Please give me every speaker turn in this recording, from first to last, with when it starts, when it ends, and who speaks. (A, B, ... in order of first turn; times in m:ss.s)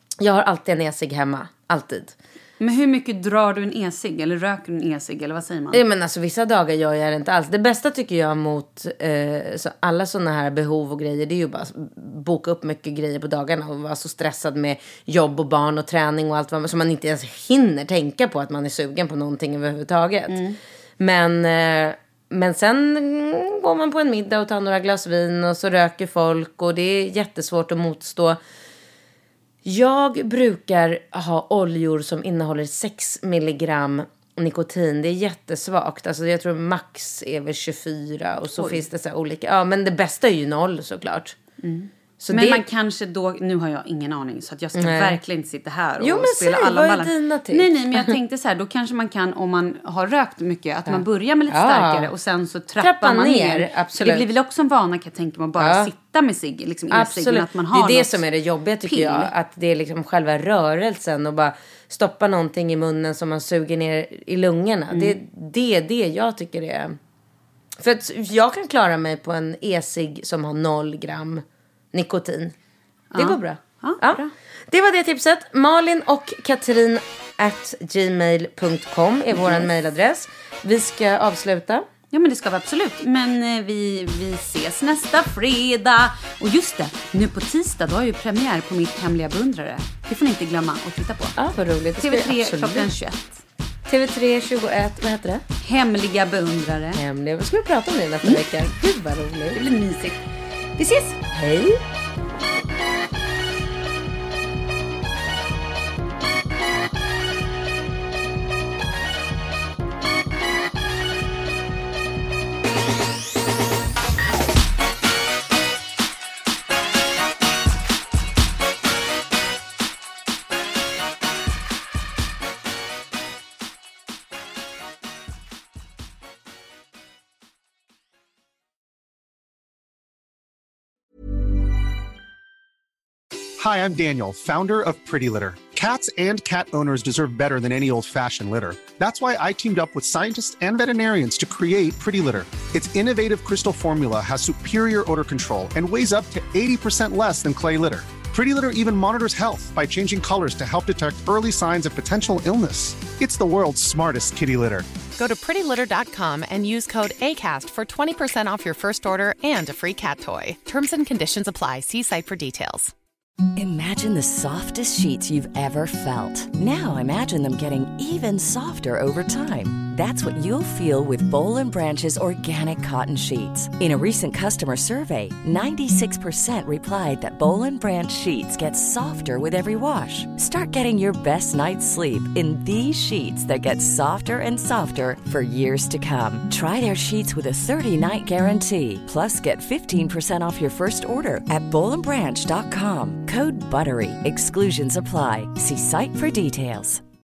0:00.2-0:02.2 A
0:02.6-0:05.8 B
0:05.7-0:20.4 A
0:20.3-0:20.6 B
0:21.0-0:28.4 A
0:29.6-0:41.4 A
0:38.6-0:38.8 B
0:41.6-0:58.2 B
0:42.2-0:42.6 A
0:44.8-0:45.2 A
0:46.0-0:48.1 A
0:50.9-0:52.1 A
0:52.8-0:54.3 A
0:55.6-0:55.9 A
0:56.9-1:07.0 A
0:58.8-0:59.3 B
1:04.9-1:05.2 B
1:07.8-1:12.6 A
1:13.1-1:14.3 B
1:13.2-1:21.9 A
1:19.4-1:19.7 B
1:22.1-1:31.4 B
1:31.4-1:32.9 A
1:32.0-1:33.4 B
1:33.9-1:35.4 A
1:35.6-1:37.0 B
1:36.9-1:39.6 A
1:39.5-1:40.2 B
1:40.8-1:41.2 B
1:41.3-1:41.8 A
2:13.6-2:34.9 C
2:35.2-2:42.9 D
2:43.6-3:17.0 E